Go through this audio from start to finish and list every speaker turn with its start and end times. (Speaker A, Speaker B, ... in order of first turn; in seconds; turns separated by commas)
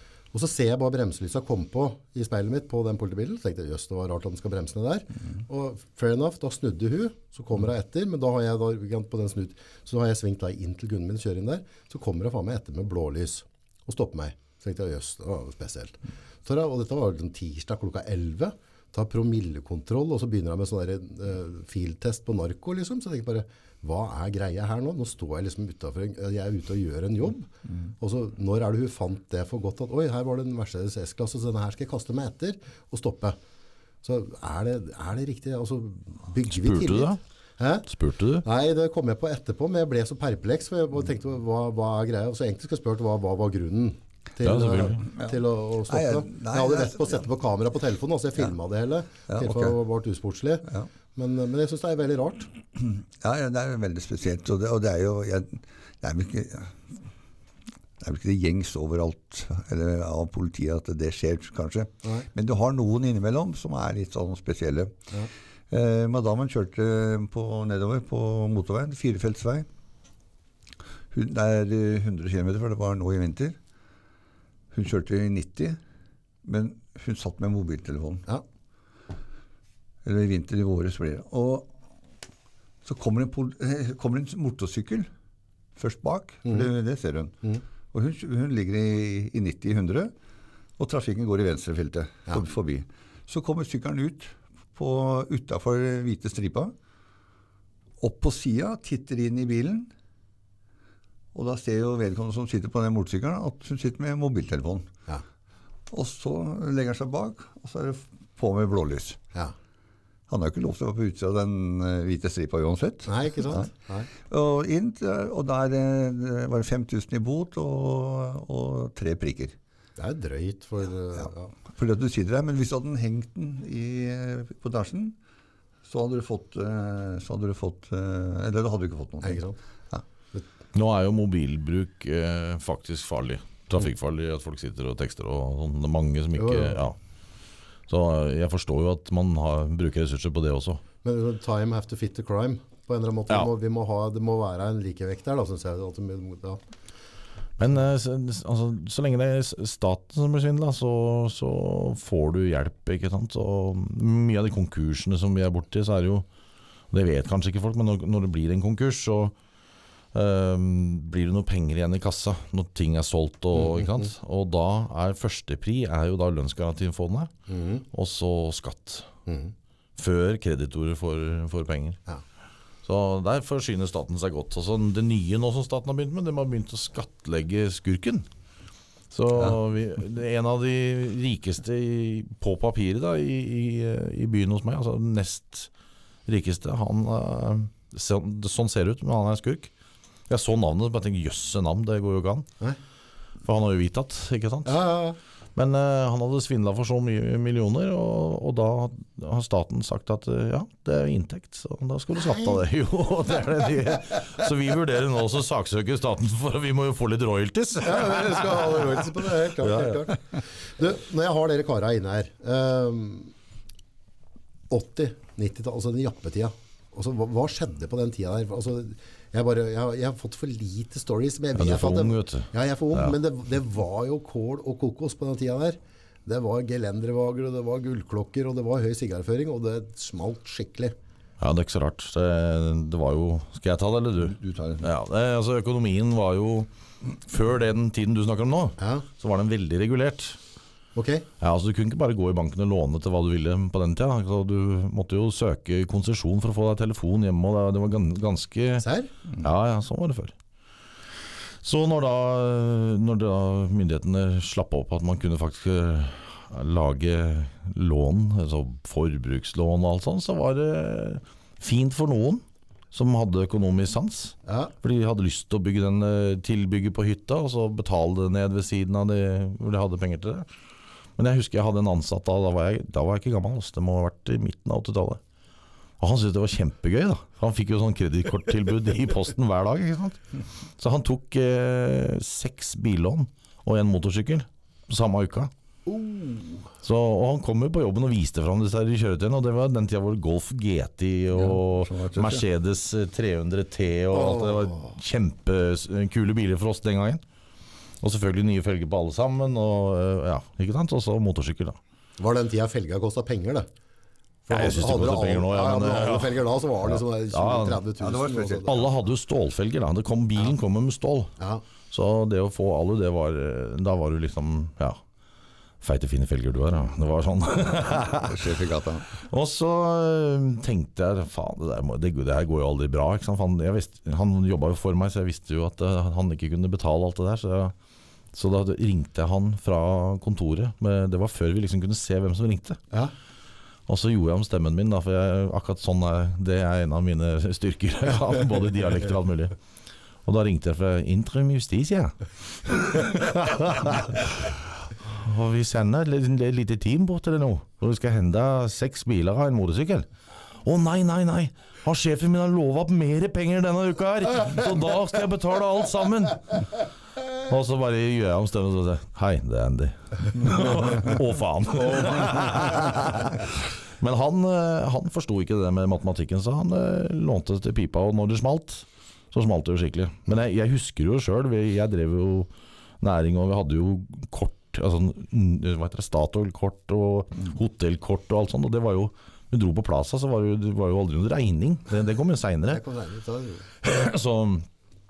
Speaker A: 0.3-33.4, Speaker A: 34.0-37.9, Speaker B: 36.5-37.2, Speaker B: 37.9-38.5, Speaker A: 38.4-52.5, Speaker B: 44.4-45.0, Speaker C: 45.9-47.2, Speaker C: 49.3-49.8, Speaker C: 52.8-57.0, Speaker C: 58.0-65.0, Speaker C: 65.7-69.7, Speaker C: 71.1-73.6, Speaker C: 74.7-75.8, Speaker C: 76.4-78.3, Speaker C: 80.0-81.7, Speaker C: 82.8-85.1, Speaker C: 85.8-87.4, Speaker C: 87.9-90.1, Speaker C: 90.8-96.7, Speaker C: 98.0-99.9, Speaker C: 101.3-104.9, Speaker C: 105.9-109.2, Speaker C: 110.3-113.7, Speaker A: 113.0-114.1, Speaker C: 114.2-119.5, Speaker A: 120.0-121.5, Speaker C: 121.2-125.2, Speaker C: 125.8-129.4, Speaker A: 129.2-129.6, Speaker B: 130.7-136.9, Speaker A: 136.3-136.8, Speaker B: 137.9-140.8, Speaker A: 141.0-146.6, Speaker B: 147.6-156.2, Speaker B: 156.9-159.3, Speaker B: 160.1-167.3, Speaker A: 163.5-164.1, Speaker A: 167.5-167.8, Speaker B: 167.9-169.1, Speaker A: 169.3-169.5, Speaker B: 170.0-172.0, Speaker B: 172.8-178.2, Speaker B: 179.1-185.7, Speaker B: 186.2-189.7, Speaker B: 190.3-192.5, Speaker B: 193.4-194.8, Speaker A: 194.7-195.2, Speaker B: 195.6-209.0, Speaker A: 202.1-202.6, Speaker A: 207.8-213.3, Speaker B: 209.6-210.0, Speaker A: 214.7-230.9, Speaker B: 221.6-223.2, Speaker B: 231.4-240.4, Speaker C: 234.2-234.9, Speaker A: 238.8-239.1, Speaker A: 240.9-241.3, Speaker B: 241.4-248.8, Speaker A: 248.8-249.1, Speaker B: 249.4-250.3, Speaker B: 251.6-270.5, Speaker A: 264.4-264.7, Speaker B: 271.2-275.2, Speaker B: 276.0-280.2, Speaker B: 280.8-285.5, Speaker A: 285.9-286.7, Speaker B: 286.8-297.2, Speaker C: 291.3-292.4, Speaker A: 294.1-294.9, Speaker B: 298.0-301.8, Speaker A: 302.2-303.7, Speaker A: 304.5-308.9, Speaker B: 304.5-307.8, Speaker C: 308.0-308.9, Speaker B: 308.6-311.3, Speaker B: 311.9-315.0, Speaker B: 315.8-318.5, Speaker C: 318.2-319.1, Speaker B: 319.1-327.7, Speaker B: 328.3-332.8, Speaker B: 333.9-339.6, Speaker B: 340.2-350.1, Speaker B: 350.6-356.8, Speaker B: 357.4-382.8, Speaker A: 382.7-383.7, Speaker B: 383.8-384.7